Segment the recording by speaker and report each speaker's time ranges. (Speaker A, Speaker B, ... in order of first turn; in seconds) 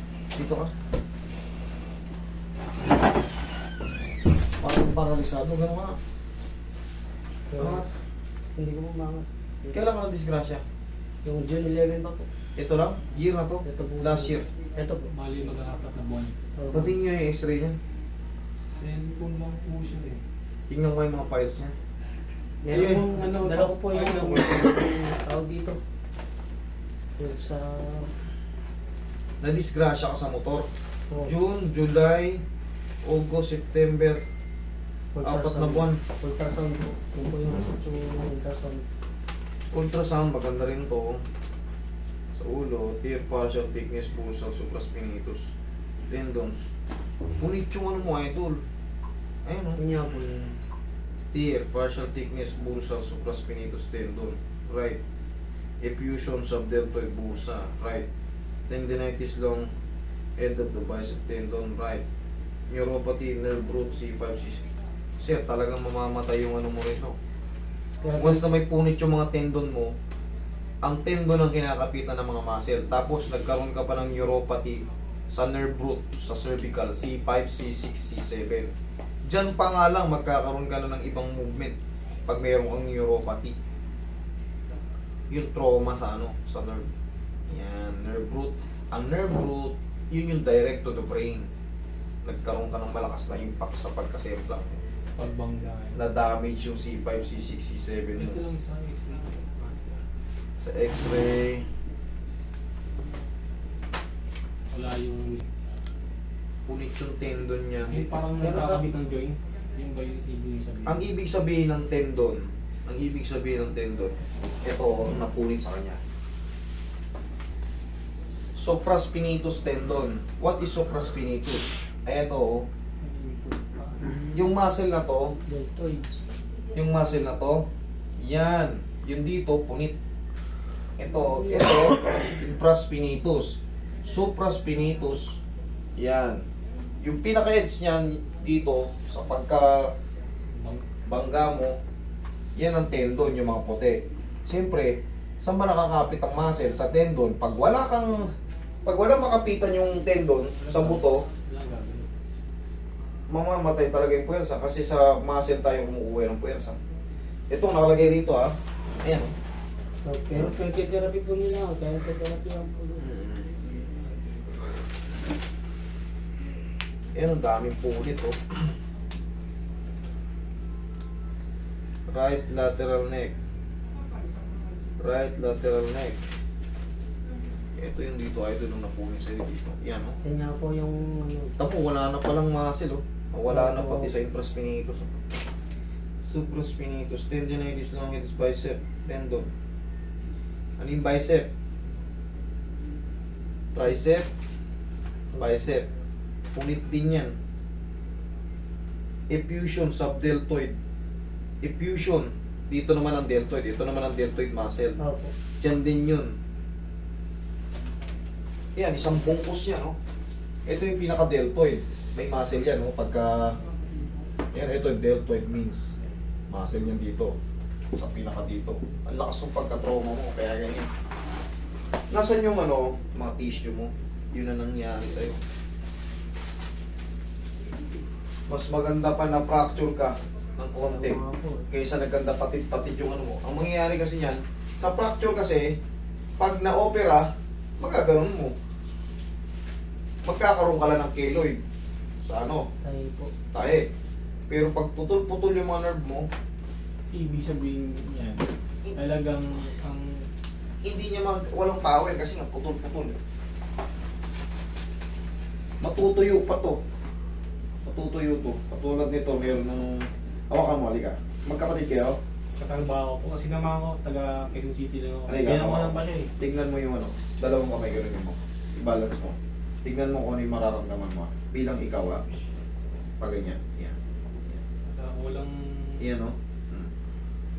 Speaker A: 0.3-0.7, 4.6-6.0, 7.6-7.9, 9.7-10.6, 12.6-14.5, 16.7-17.8, 20.7-21.7, 22.7-23.2, 29.4-32.4, 33.0-34.2, 35.2-36.0, 39.7-41.2, 42.3-45.5, 46.1-46.7, 47.4-48.6, 49.4-49.8, 51.3-55.0, 55.8-58.1, 58.7-59.7, 60.4-62.0, 62.7-64.6, 65.2-67.2, 68.2-69.9, 70.8-78.7, 79.2-81.8, 82.3-83.5, 85.3-86.9, 87.5-91.5, 92.2-94.8, 95.9-98.4, 100.6-101.7, 106.7-108.1, 110.8-116.0, 118.6-122.7, 124.3-125.4, 126.7-129.9, 131.0-135.4, 136.0-136.4, 137.0-139.9, 141.1-141.8, 142.5-148.3, 148.8-151.2, 153.3-156.8, 157.5-159.3, 163.0-163.5, 167.1-168.5, 172.1-173.3, 175.0-176.2, 177.8-180.2, 181.6-185.2, 186.2-189.5, 190.8-191.5, 193.7-194.3, 195.4-195.9, 196.5-197.3, 199.3-200.7, 201.6-205.0, 205.6-206.3, 208.8-209.9, 210.7-213.6, 214.5-215.9, 216.5-217.4, 217.9-220.9, 222.1-225.4, 228.5-235.8, 236.4-237.3, 237.8-238.5, 240.2-241.6, 242.2-242.7, 243.5-243.9, 244.5-246.3, 250.8-253.2, 255.8-256.8, 257.8-262.2, 265.3-272.2, 273.2-274.6, 276.0-276.9
Speaker B: 7.5-7.8, 8.6-9.8, 11.2-12.3, 13.6-15.1, 16.6-16.9, 22.6-25.8, 27.2-28.1, 31.1-31.4, 35.1-38.8, 49.8-50.6, 68.0-68.4, 108.4-108.8, 124.1-124.4, 125.4-126.2, 131.1-131.8, 160.0-163.1, 180.2-181.6, 183.5-184.1, 205.0-205.3, 230.8-231.7, 242.8-243.3
Speaker C: 15.1-16.4, 18.6-20.2, 22.7-24.6, 95.2-96.0, 98.2-100.0, 104.7-105.5, 107.9-111.1, 123.0-124.2, 140.5-140.9, 150.6-152.1, 247.1-250.3, 262.6-266.3, 274.9-276.0